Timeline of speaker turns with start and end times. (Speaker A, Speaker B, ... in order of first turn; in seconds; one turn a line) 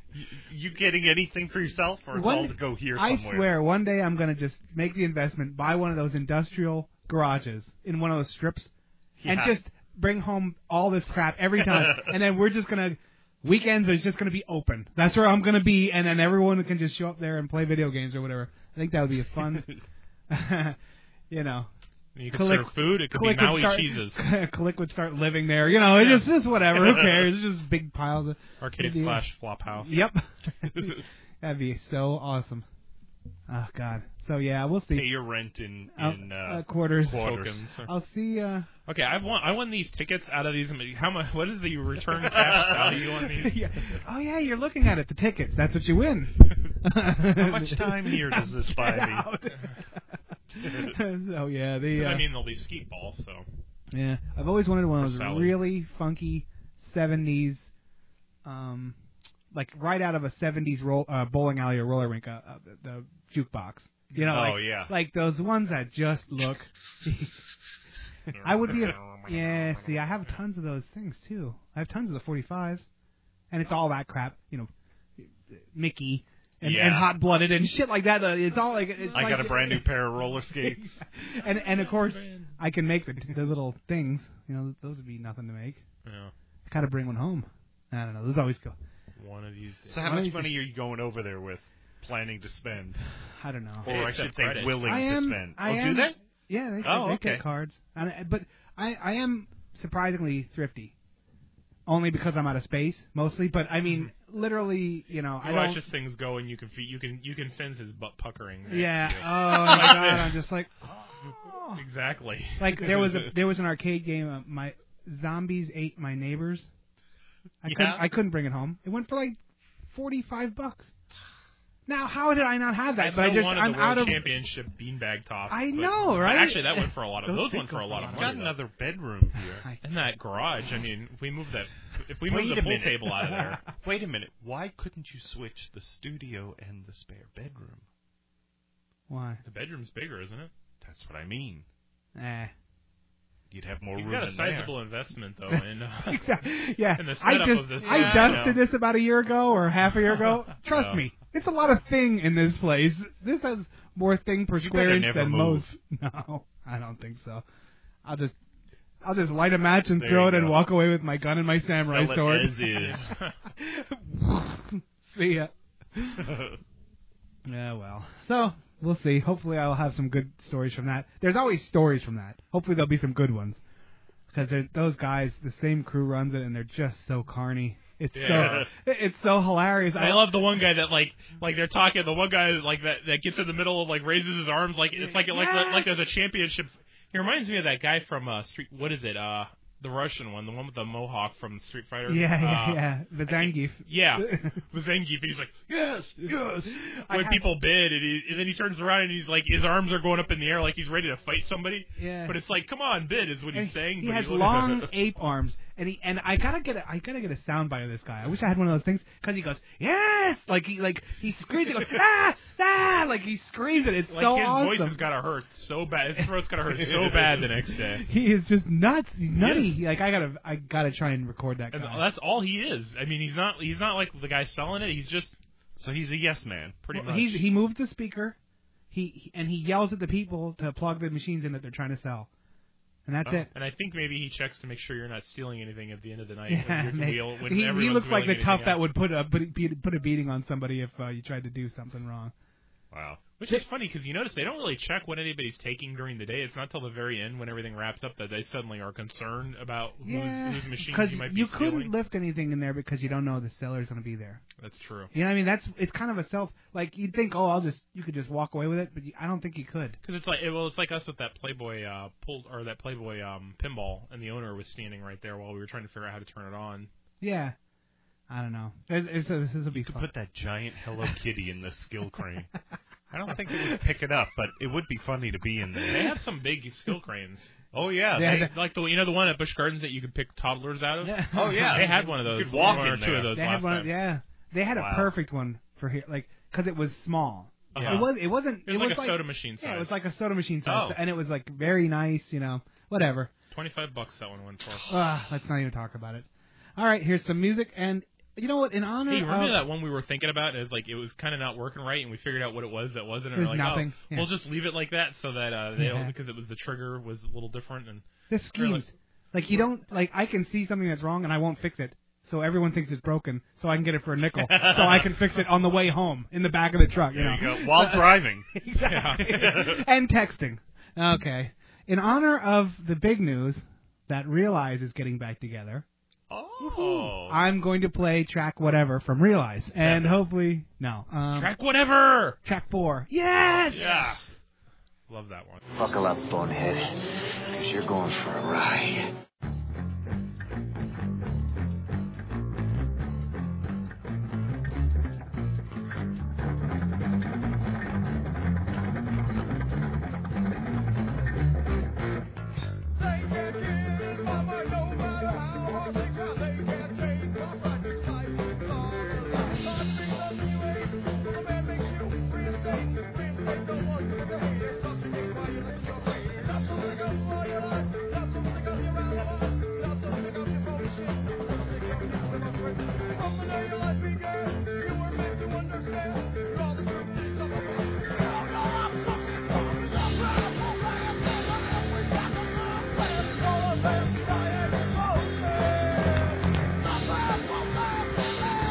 Speaker A: 0.1-3.5
Speaker B: 2.1-8.7
Speaker A: 9.2-9.6
Speaker B: 9.2-19.7
Speaker A: 11.6-12.2
Speaker B: 20.3-20.8
Speaker B: 21.3-21.7
Speaker C: 22.1-24.2
Speaker B: 22.3-29.3
Speaker C: 25.9-26.3
Speaker C: 28.6-30.0
Speaker B: 29.8-32.7
Speaker B: 33.5-35.1
Speaker A: 34.9-37.6
Speaker B: 36.0-38.7
Speaker C: 37.1-37.9
Speaker C: 38.9-44.0
Speaker A: 42.2-43.1
Speaker B: 43.4-50.0
Speaker A: 47.2-49.3
Speaker B: 50.6-52.3
Speaker A: 50.6-50.9
Speaker C: 52.0-53.5
Speaker B: 53.9-57.7
Speaker C: 55.0-55.6
Speaker B: 58.5-59.0
Speaker B: 59.5-67.3
Speaker A: 64.3-64.9
Speaker B: 68.4-72.9
Speaker C: 68.4-69.7
Speaker A: 68.7-69.0
Speaker B: 73.5-74.7
Speaker B: 75.2-80.0
Speaker A: 76.6-77.1
Speaker C: 79.1-79.6
Speaker A: 79.1-81.0
Speaker B: 80.6-85.8
Speaker C: 81.4-82.5
Speaker C: 86.0-86.3
Speaker B: 86.7-88.8
Speaker C: 89.2-90.0
Speaker A: 89.9-93.0
Speaker B: 90.0-90.5
Speaker B: 93.4-94.0
Speaker A: 93.8-96.2
Speaker C: 93.9-95.0
Speaker B: 94.8-100.9
Speaker A: 96.8-97.5
Speaker B: 101.9-105.8
Speaker C: 105.4-110.4
Speaker B: 108.7-111.8
Speaker C: 111.8-113.3
Speaker B: 112.6-116.7
Speaker B: 117.6-119.4
Speaker A: 117.6-118.0
Speaker B: 119.9-120.9
Speaker B: 121.9-124.3
Speaker C: 123.0-128.6
Speaker B: 125.5-128.4
Speaker A: 128.1-129.7
Speaker C: 129.8-133.6
Speaker A: 132.3-133.2
Speaker A: 133.7-137.8
Speaker B: 139.1-139.4
Speaker C: 139.4-140.5
Speaker A: 140.8-141.7
Speaker B: 142.2-142.5
Speaker A: 143.5-144.8
Speaker C: 143.9-146.3
Speaker B: 145.5-157.4
Speaker C: 147.0-148.6
Speaker A: 147.8-148.6
Speaker A: 150.7-151.0
Speaker A: 154.6-155.7
Speaker B: 158.1-158.4
Speaker B: 159.0-166.3
Speaker A: 159.9-160.6
Speaker A: 161.8-163.1
Speaker C: 162.8-163.3
Speaker A: 166.2-166.6
Speaker B: 167.5-173.6
Speaker B: 174.3-180.3
Speaker C: 178.2-178.7
Speaker A: 178.2-178.7
Speaker C: 179.9-204.9
Speaker B: 185.0-185.9
Speaker B: 192.1-194.6
Speaker B: 196.2-197.4
Speaker B: 202.0-202.3
Speaker B: 203.5-215.0
Speaker C: 214.1-218.0
Speaker A: 216.9-217.2
Speaker B: 217.9-222.0
Speaker C: 219.4-219.8
Speaker C: 221.7-225.3
Speaker A: 225.8-226.9
Speaker C: 226.9-227.4
Speaker B: 226.9-228.4
Speaker B: 228.9-232.3
Speaker B: 233.1-233.5
Speaker C: 233.5-238.8
Speaker B: 236.5-242.3
Speaker A: 242.9-243.2
Speaker C: 243.4-251.9
Speaker B: 250.1-254.4
Speaker C: 254.6-255.1
Speaker B: 255.1-260.0
Speaker C: 260.0-266.9
Speaker B: 267.2-267.6
Speaker B: 268.3-270.1
Speaker A: 269.7-272.5
Speaker A: 273.1-276.1
Speaker B: 273.5-273.8
Speaker C: 275.9-277.6
Speaker A: 277.7-278.5
Speaker B: 278.1-278.5
Speaker C: 278.2-284.0
Speaker B: 281.0-293.3
Speaker A: 281.3-283.3
Speaker A: 284.7-285.1
Speaker A: 287.7-288.1
Speaker C: 287.8-290.0
Speaker A: 290.6-291.0
Speaker C: 293.5-294.9
Speaker B: 294.9-296.3
Speaker B: 296.8-299.6
Speaker C: 299.1-308.9
Speaker B: 303.4-304.3
Speaker B: 305.8-306.1
Speaker B: 308.3-325.9
Speaker A: 314.4-315.2
Speaker A: 317.1-318.5
Speaker C: 318.8-319.6
Speaker A: 319.2-319.8
Speaker A: 326.3-327.4
Speaker B: 326.6-331.6
Speaker C: 329.8-330.2
Speaker C: 331.3-332.4
Speaker B: 332.4-333.9
Speaker C: 333.4-334.3
Speaker A: 333.7-334.3
Speaker C: 335.1-335.6
Speaker D: 335.8-336.9
Speaker D: 337.5-339.0
Speaker E: 353.0-380.7
Speaker E: 381.2-386.3